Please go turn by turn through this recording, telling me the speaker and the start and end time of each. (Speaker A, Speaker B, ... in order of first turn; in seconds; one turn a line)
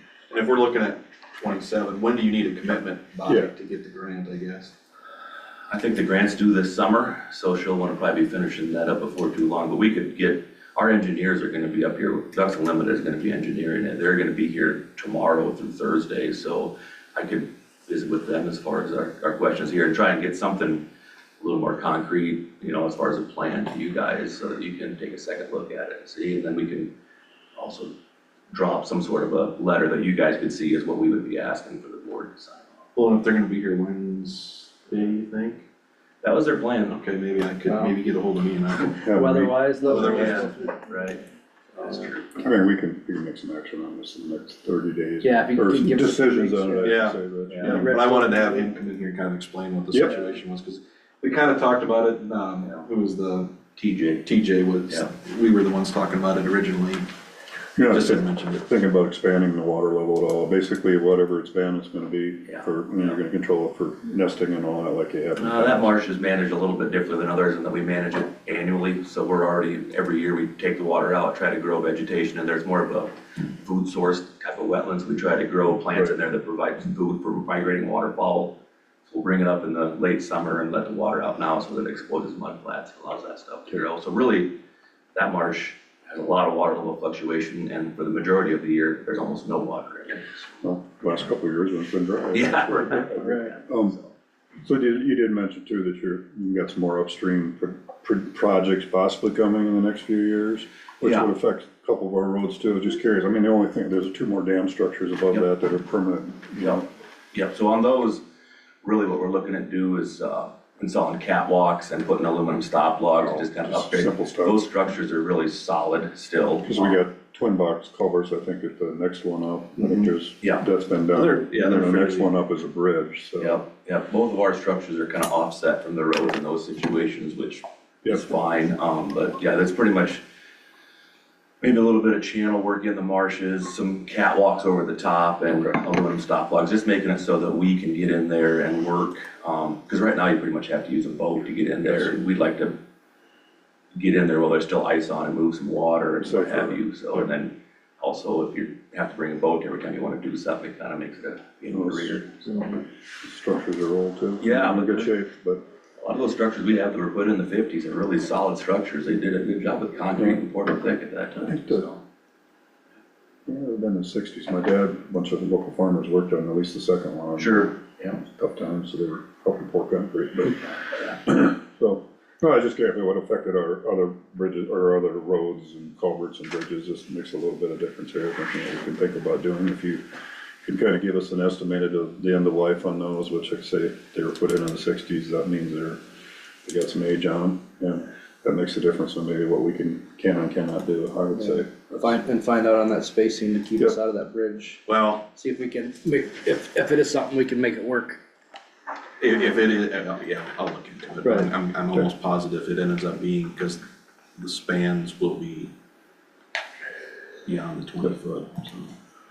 Speaker A: 0.3-4.8
Speaker B: 3.3-3.5
Speaker C: 5.7-20.9
Speaker C: 21.4-26.9
Speaker C: 27.6-27.9
Speaker C: 28.5-32.7
Speaker A: 33.0-35.6
Speaker C: 36.2-37.0
Speaker A: 36.9-39.1
Speaker D: 37.7-38.0
Speaker D: 39.0-40.8
Speaker B: 39.0-39.6
Speaker A: 39.8-40.6
Speaker C: 40.1-41.2
Speaker C: 41.8-42.3
Speaker B: 42.3-47.9
Speaker D: 45.2-47.0
Speaker A: 46.8-57.1
Speaker D: 47.5-48.7
Speaker B: 57.8-66.0
Speaker A: 57.9-58.7
Speaker C: 62.5-63.1
Speaker C: 65.4-84.6
Speaker C: 85.2-90.3
Speaker B: 90.6-94.0
Speaker C: 92.3-94.1
Speaker D: 93.1-93.6
Speaker B: 94.6-106.9
Speaker C: 101.0-101.3
Speaker C: 106.6-108.2
Speaker C: 108.8-117.0
Speaker B: 113.2-114.7
Speaker B: 116.6-123.6
Speaker A: 119.8-120.1
Speaker C: 120.4-120.7
Speaker A: 121.1-122.3
Speaker C: 123.4-130.2
Speaker B: 128.0-128.3
Speaker C: 131.6-142.8
Speaker C: 143.9-152.4
Speaker B: 146.2-147.3
Speaker B: 151.7-155.6
Speaker C: 154.4-155.2
Speaker C: 156.0-162.0
Speaker B: 160.2-160.4
Speaker B: 161.4-161.9
Speaker B: 163.5-180.0
Speaker C: 167.4-168.2
Speaker B: 180.6-186.0
Speaker B: 186.6-192.1
Speaker D: 191.4-194.8
Speaker A: 194.9-195.3
Speaker D: 195.3-198.2
Speaker A: 199.2-203.8
Speaker D: 201.2-201.5
Speaker A: 204.4-205.7
Speaker A: 207.5-208.9